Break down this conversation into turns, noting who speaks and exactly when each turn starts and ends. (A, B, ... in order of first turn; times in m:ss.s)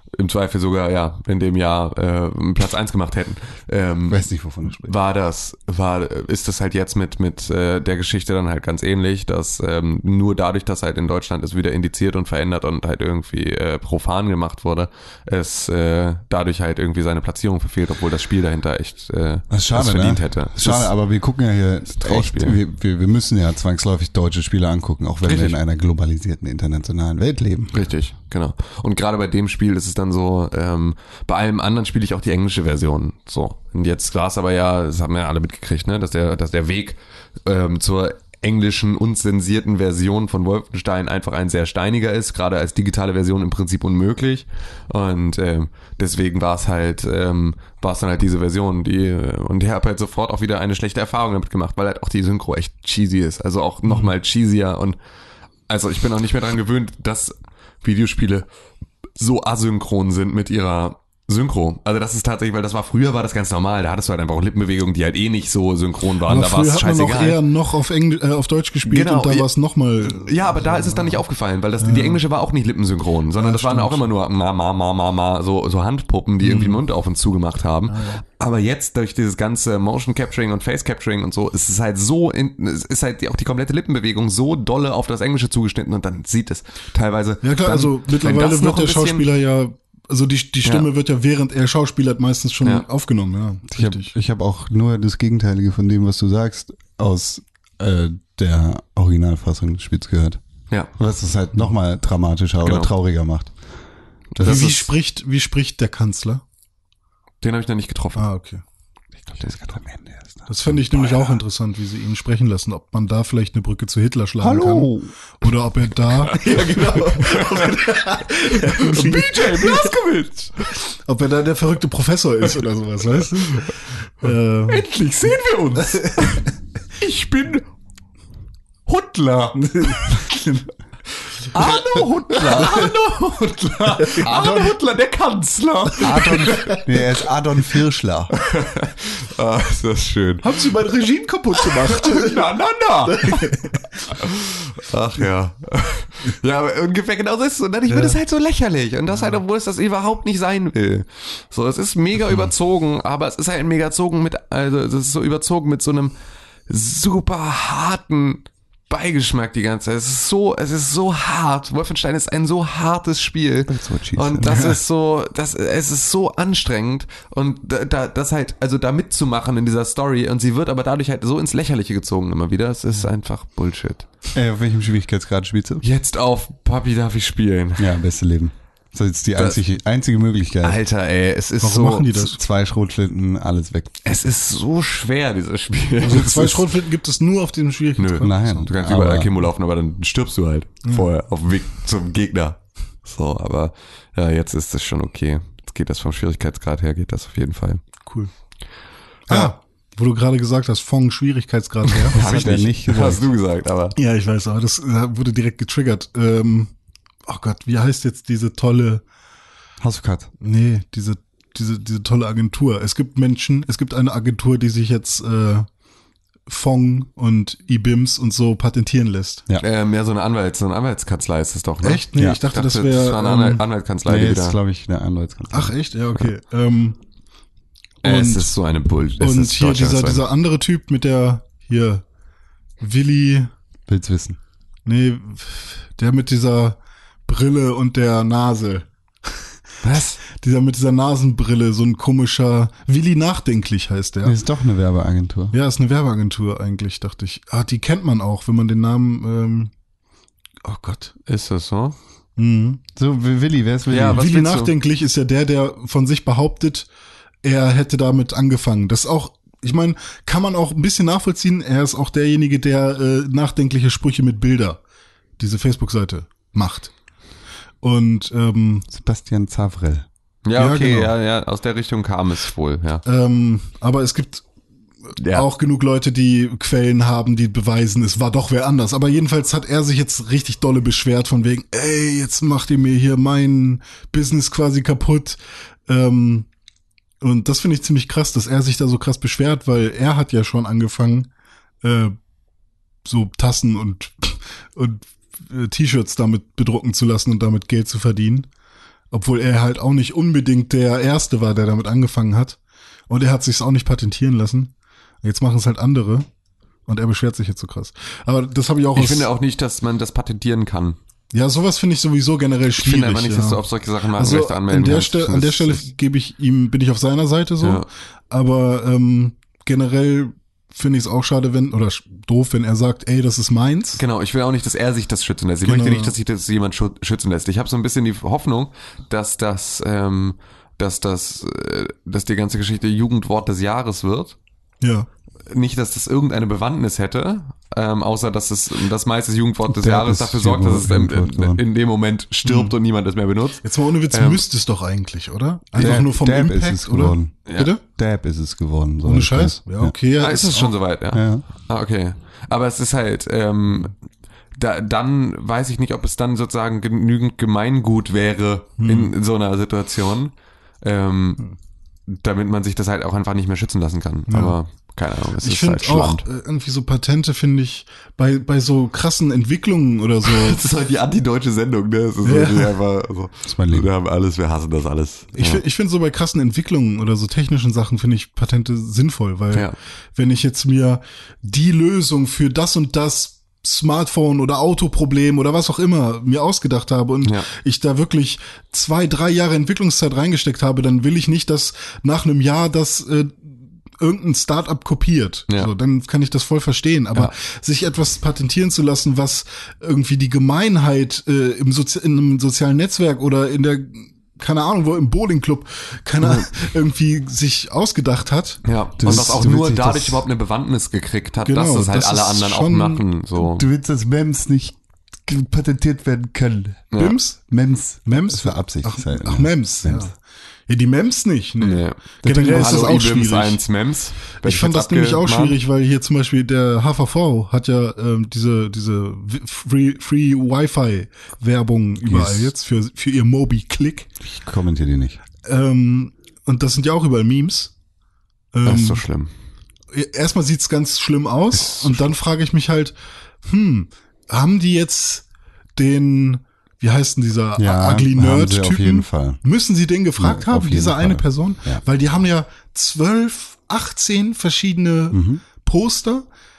0:00.2-0:04.2 A
0:04.1-0:04.9 B
0:04.8-0:20.9 A
0:19.5-0:27.8 B
0:22.0-0:22.6 A
0:25.2-0:25.6 A
0:27.7-0:55.0 A
0:53.9-0:54.1 C
0:55.7-0:58.5 A
0:59.2-1:07.4 A
1:06.2-1:11.2 C
1:08.8-1:09.5 A
1:10.0-1:29.3 A
1:11.8-1:12.2 C
1:13.4-1:14.1 C
1:16.4-1:16.8 C
1:17.9-1:18.2 C
1:27.4-1:34.1 C
1:33.7-1:40.4 B
1:41.0-1:43.5 B
1:42.6-1:42.9 A
1:44.4-1:44.9 B
1:44.4-1:44.8 A
1:44.4-1:46.4 C
1:47.4-1:48.3 A
1:48.2-1:48.6 C
1:49.3-1:50.5 B
1:50.5-2:00.0 C
1:54.4-1:55.1 B
1:56.3-2:00.7 A
2:00.9-2:04.8 C
2:04.7-2:07.7 A
2:05.9-2:06.3 C
2:08.9-2:10.4 A
2:09.6-2:10.7 C
2:11.5-2:16.9 A
2:12.4-2:12.9 C
2:14.0-2:14.6 C
2:14.3-2:14.6 B
2:16.0-2:18.3 B
2:16.1-2:16.8 C
2:18.3-2:20.5 A
2:20.4-2:22.5 C
2:21.6-2:36.1 A
2:23.1-2:24.0 C
2:27.9-2:28.2 C
2:36.7-2:54.1 A
2:43.7-2:44.7 B
2:44.5-2:44.8 C
2:54.3-2:55.8 B
2:55.8-2:57.9 A
2:57.8-3:00.8 B
3:00.6-3:02.1 A
3:01.6-3:02.4 C
3:02.1-3:04.0 B
3:04.0-3:06.7 A
3:06.0-3:08.7 C
3:08.0-3:17.8 A
3:08.2-3:09.3 B
3:18.1-3:18.3 C
3:19.3-3:22.6 C
3:21.9-3:24.0 A
3:22.1-3:23.2 B
3:24.0-3:26.7 C
3:27.3-3:29.0 C
3:29.8-3:30.3 B
3:30.4-3:35.7 C
3:36.5-3:39.5 C
3:39.6-3:44.6 A
3:41.8-3:43.6 C
3:42.2-3:42.4 B
3:44.1-3:45.7 B
3:45.5-3:47.0 C
3:48.0-3:50.2 A
3:48.0-3:48.5 C
3:49.2-3:52.0 C
3:52.8-3:53.5 C
3:53.9-3:54.4 B
3:54.9-3:59.4 C
3:59.8-4:00.1 B
3:59.9-4:00.2 A
4:00.2-4:04.4 C
4:04.2-4:05.5 B
4:05.5-4:09.7 C
4:10.6-4:11.2 C
4:11.3-4:12.0 A
4:12.4-4:12.8 C
4:13.0-4:14.2 B
4:13.9-4:14.7 A
4:14.1-4:16.9 C
4:17.4-4:24.8 C
4:25.4-4:26.9 C
4:27.8-4:28.9 C
4:28.9-4:30.1 B
4:30.5-4:33.0 A
4:30.6-4:31.2 C
4:33.0-4:34.4 C
4:35.1-4:46.5 C
4:35.2-4:35.5 A
4:47.2-4:51.3 C
4:51.8-4:52.2 C
4:53.0-4:58.5 C
4:59.1-5:02.6 C
5:03.1-5:04.7 C
5:05.2-5:06.3 C
5:06.9-5:09.3 C
5:09.0-5:11.0 A
5:11.3-5:24.0 C
5:12.8-5:15.8 A
5:17.6-5:17.9 A
5:24.0-5:34.4 A
5:25.6-5:26.2 C
5:34.8-5:35.1 C
5:35.5-5:44.4 A
5:39.7-5:41.6 B
5:42.4-5:42.8 C
5:43.6-5:47.8 C
5:45.8-5:49.9 B
5:49.0-5:50.8 C
5:50.2-5:53.9 A
5:51.1-5:51.4 B
5:54.6-6:01.4 A
5:58.8-5:59.1 C
6:02.1-6:06.2 A
6:04.3-6:04.6 C
6:05.4-6:10.6 C
6:10.2-6:15.6 A
6:12.2-6:12.8 C
6:13.4-6:13.9 B
6:15.4-6:49.4 C
6:46.2-6:46.5 A
6:48.6-6:53.7 A
6:49.0-6:50.2 B
6:51.4-6:53.0 C
6:53.4-6:56.9 B
6:56.9-6:57.2 A
6:57.0-6:57.5 C
6:57.5-7:00.1 B
6:58.1-7:00.2 C
7:00.7-7:03.6 C
7:01.6-7:05.6 A
7:02.2-7:02.9 B
7:04.4-7:14.1 C
7:12.1-7:12.5 B
7:14.2-7:15.2 B
7:15.4-7:17.7 C
7:18.5-7:19.0 C
7:18.6-7:19.3 A
7:19.9-7:25.2 C
7:21.5-7:22.0 A
7:25.8-7:36.3 C
7:27.6-7:29.4 B
7:30.2-7:31.8 B
7:35.1-7:35.4 B